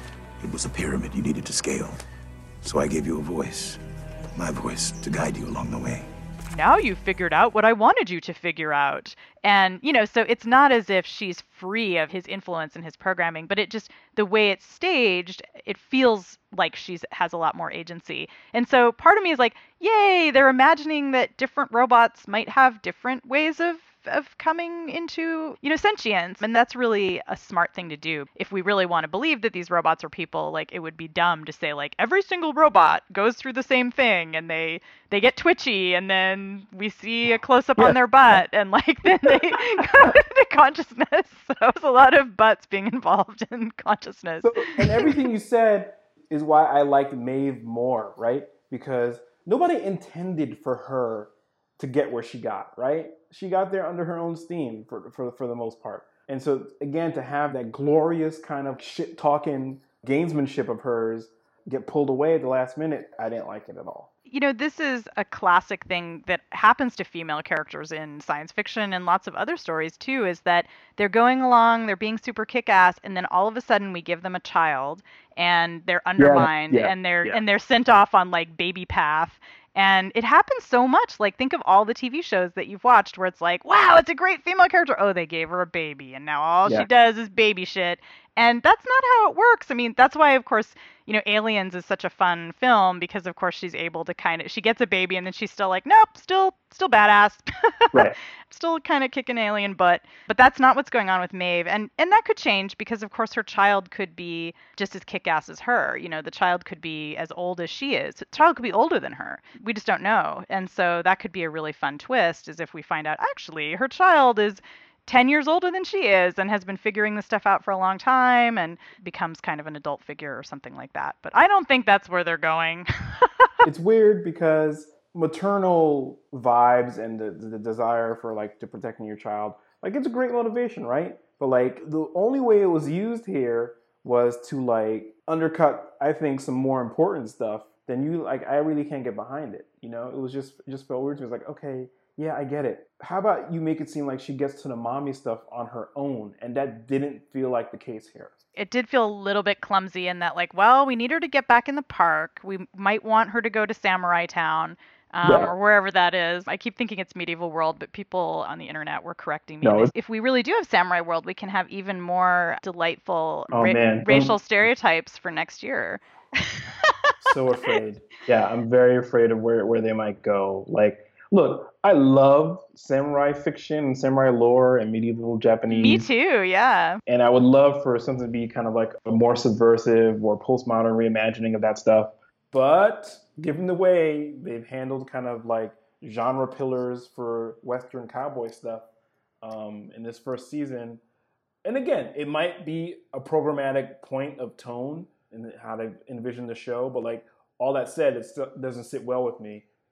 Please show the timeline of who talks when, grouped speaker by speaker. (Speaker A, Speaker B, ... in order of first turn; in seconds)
Speaker A: 0.4-2.0, 2.6-3.8, 4.3-6.1
Speaker B: 6.5-45.2, 64.3-123.5, 148.6-167.1, 175.7-177.0
Speaker C: 39.2-40.1, 44.4-64.1, 76.2-77.4, 123.6-148.4, 155.2-155.5, 159.6-159.9, 163.5-164.4, 167.2-176.1, 177.1-188.9, 189.4-191.0, 191.6-199.7